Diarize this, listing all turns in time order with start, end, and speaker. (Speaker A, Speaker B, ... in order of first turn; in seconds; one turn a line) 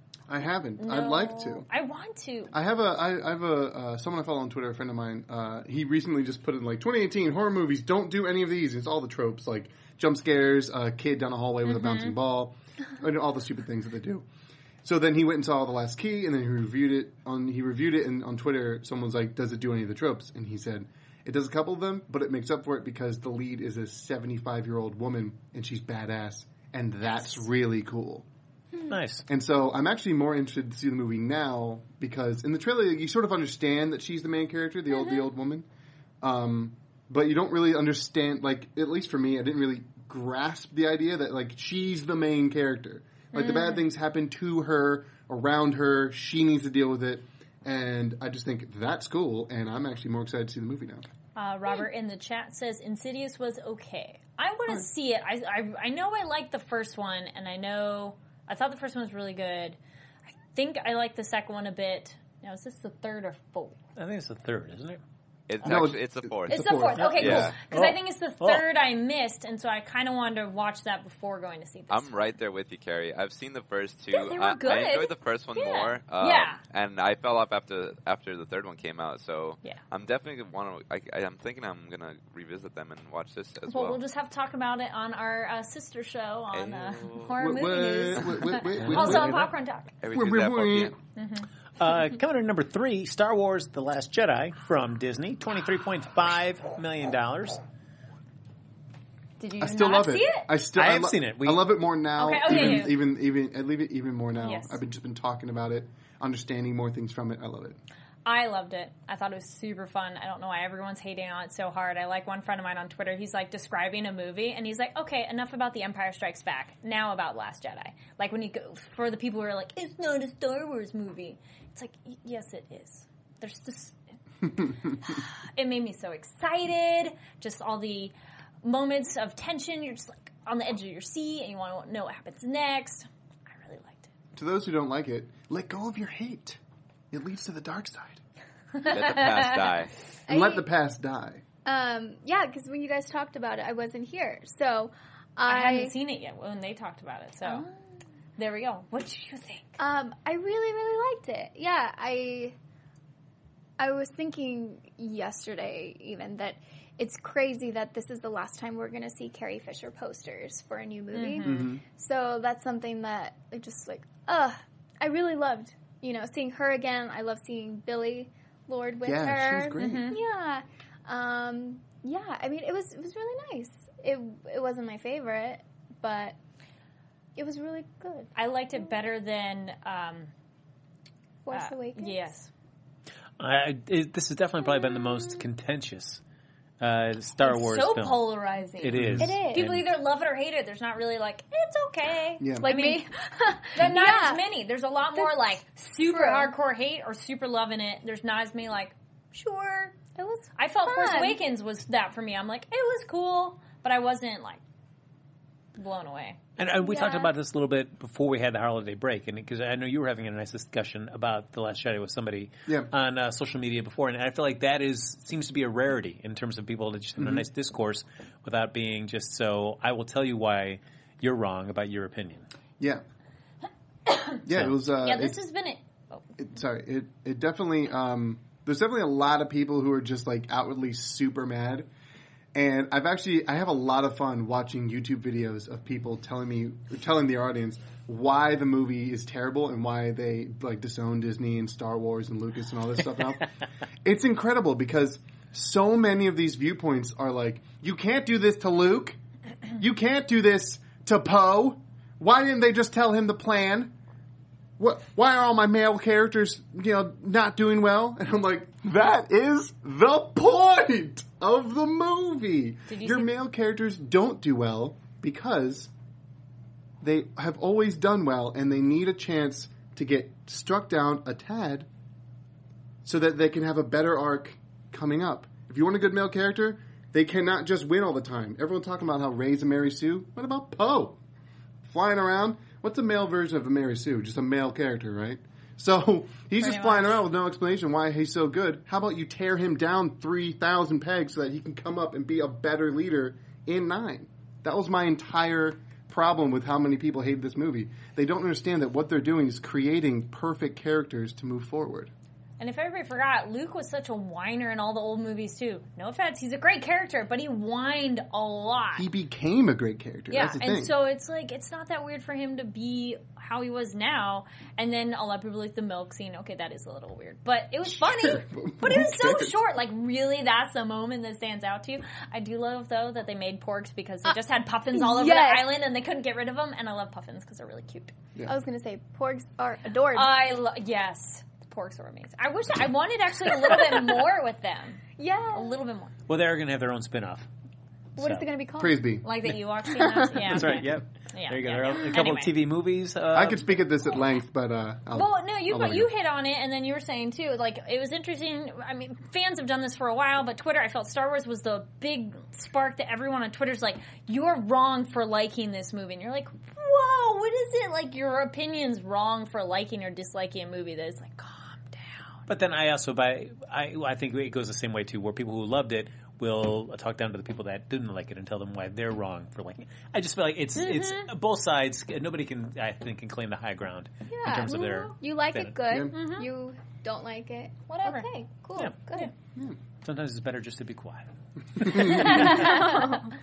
Speaker A: 0.3-1.7
Speaker B: 0.8-2.5
Speaker A: 2.5-14.2
Speaker B: 11.7-12.2
Speaker A: 14.8-28.3
Speaker C: 28.9-29.2
Speaker A: 29.3-35.7
Speaker A: 36.2-51.1
Speaker B: 43.4-43.8
Speaker B: 51.4-59.8
Speaker B: 60.5-63.8
Speaker C: 64.0-65.0
Speaker D: 65.5-67.6
Speaker A: 65.6-67.5
Speaker B: 66.5-72.1
Speaker C: 67.0-68.6
Speaker D: 71.9-84.0
Speaker B: 74.1-76.6
Speaker B: 83.7-89.9
Speaker D: 86.5-87.4
Speaker A: 87.4-89.5
Speaker D: 88.2-89.4
Speaker D: 90.0-91.0
Speaker A: 90.1-91.0
Speaker B: 91.2-91.5
Speaker C: 91.8-97.6
Speaker B: 99.4-100.5
Speaker A: 99.6-107.8
Speaker C: 100.8-101.7
Speaker B: 102.2-103.0
Speaker B: 104.4-104.8
Speaker B: 108.2-124.0
Speaker B: 125.0-134.1
Speaker A: 134.3-136.6
Speaker A: 137.1-138.2
Speaker B: 138.8-139.5
Speaker D: 138.9-139.9
Speaker E: 140.3-140.7
Speaker A: 140.3-141.4
Speaker E: 141.7-145.9
Speaker B: 145.5-147.7
Speaker E: 147.4-147.7
Speaker B: 148.4-149.8
Speaker E: 149.8-152.6
Speaker E: 153.8-176.4
Speaker B: 161.1-161.7
Speaker A: 161.4-161.8
Speaker A: 169.1-170.1
Speaker B: 169.8-170.2
Speaker E: 177.4-178.3
Speaker B: 178.4-180.3
Speaker E: 181.4-182.3
Speaker B: 181.5-182.5
Speaker C: 183.4-186.2
Speaker C: 186.8-188.2
Speaker B: 187.4-193.1
Speaker C: 188.8-189.9
Speaker A: 188.9-189.4
Speaker E: 189.2-189.7
Speaker A: 192.4-192.7
Speaker E: 192.6-194.4
Speaker B: 193.8-200.0
Speaker E: 195.2-195.5
Speaker E: 196.1-196.5
Speaker E: 200.2-201.4
Speaker B: 200.6-204.6
Speaker B: 205.8-206.4
Speaker C: 206.6-222.4
Speaker E: 206.8-207.3
Speaker A: 217.2-217.5
Speaker B: 224.1-226.2
Speaker A: 224.4-225.4
Speaker A: 226.4-231.9
Speaker A: 232.5-243.5
Speaker A: 244.1-249.2
Speaker A: 249.8-253.9
Speaker A: 254.8-265.9
Speaker B: 262.9-263.3
Speaker A: 267.0-271.9
Speaker A: 273.1-281.2
Speaker A: 281.9-302.1
Speaker B: 286.6-287.2
Speaker B: 302.6-309.1
Speaker A: 309.0-310.9
Speaker B: 310.3-328.1
Speaker A: 317.9-319.6
Speaker E: 324.9-325.8
Speaker E: 328.5-330.3
Speaker B: 330.1-336.1
Speaker E: 335.2-335.8
Speaker C: 336.3-337.5
Speaker C: 338.2-338.4
Speaker E: 338.2-339.1
Speaker A: 338.8-339.5
Speaker B: 339.2-342.5
Speaker E: 339.9-340.5
Speaker A: 340.5-340.8
Speaker C: 340.5-343.8
Speaker A: 343.3-346.1
Speaker B: 345.1-362.5
Speaker C: 362.5-375.8
Speaker B: 370.8-371.3
Speaker E: 374.3-379.3
Speaker A: 375.9-376.3
Speaker B: 376.1-376.5
Speaker B: 377.9-378.3
Speaker C: 380.0-383.0
Speaker A: 381.8-382.4
Speaker E: 382.1-383.2
Speaker B: 382.1-383.2